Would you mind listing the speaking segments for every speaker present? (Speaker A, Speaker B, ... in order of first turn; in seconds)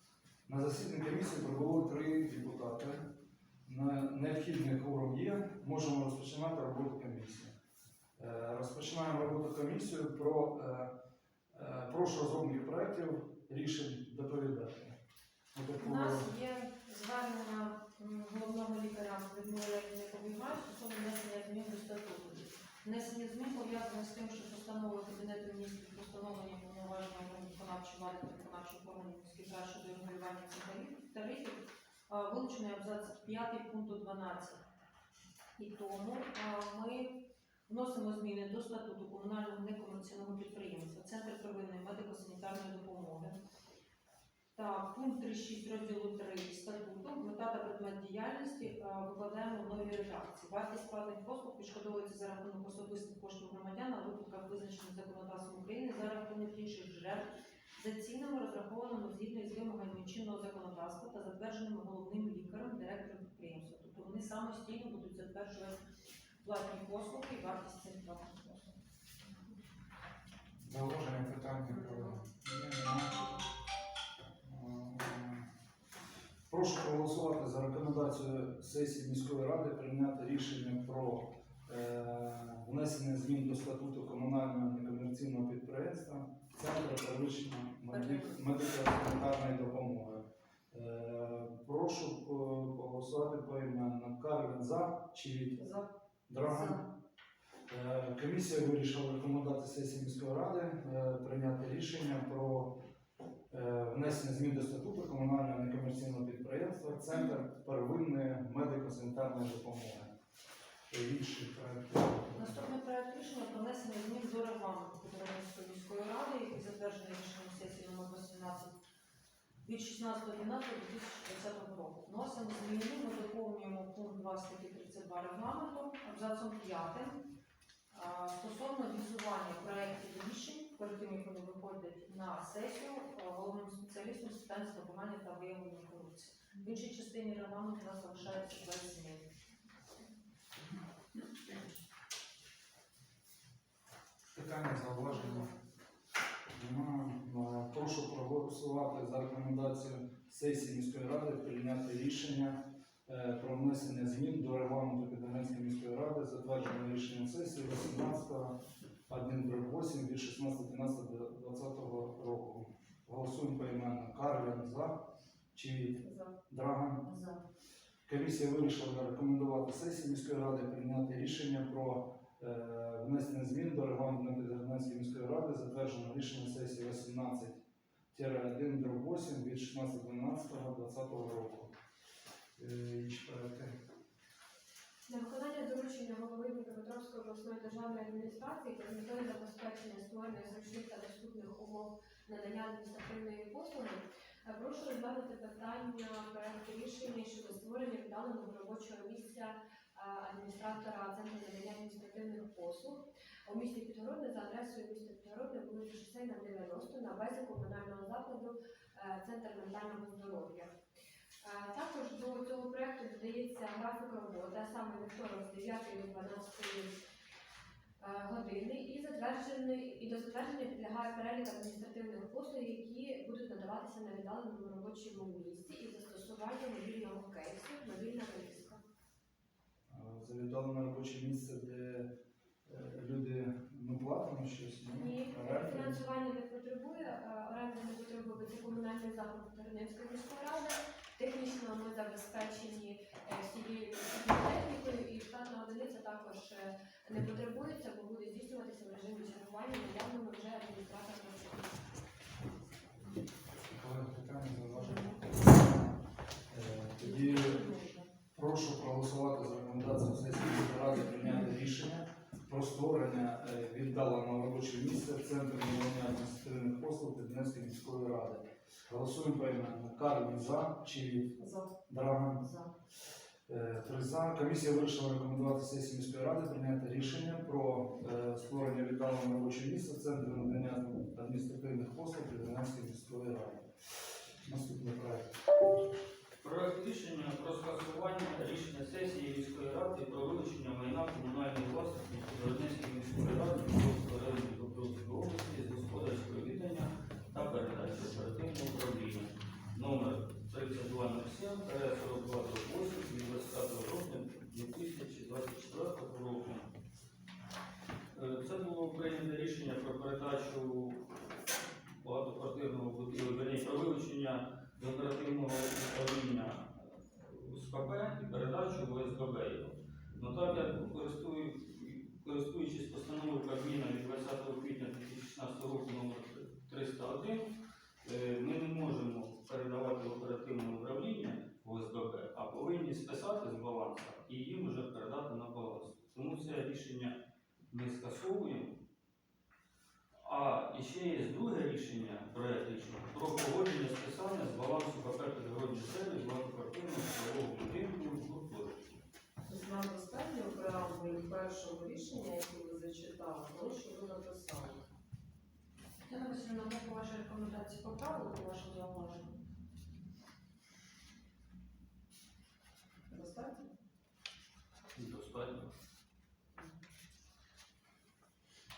Speaker A: 0.5-3.0, 3.6-7.5, 8.2-10.9, 11.5-14.9, 15.5-16.3, 70.6-73.3, 74.4-75.5, 76.5-95.6, 96.3-96.8, 97.7-102.8, 103.5-110.1, 110.9-112.6, 144.3-145.5, 146.5-158.6, 159.1-165.0, 165.5-167.1, 168.1-177.6, 178.1-181.7, 182.6-183.7, 229.9-232.1, 232.7-236.0, 253.7-256.0, 256.5-257.7, 258.3-271.3, 271.9-272.5, 273.5-283.6, 284.4-285.4
Speaker B: 15.8-34.6, 35.6-43.4, 44.5-65.8, 66.4-68.8, 87.9-88.4, 112.3-118.7, 119.6-127.2, 127.9-139.3, 257.2-258.0, 356.1-359.4
Speaker C: 166.0-166.3, 167.1-167.3, 271.4-271.7, 349.4-354.8, 363.1-363.7
Speaker D: 185.1-210.7, 211.4-217.0, 218.0-228.8, 234.9-251.7
Speaker E: 286.4-306.7, 308.1-311.0, 312.0-327.5, 328.0-337.1, 337.7-338.7, 340.2-348.8, 364.9-365.7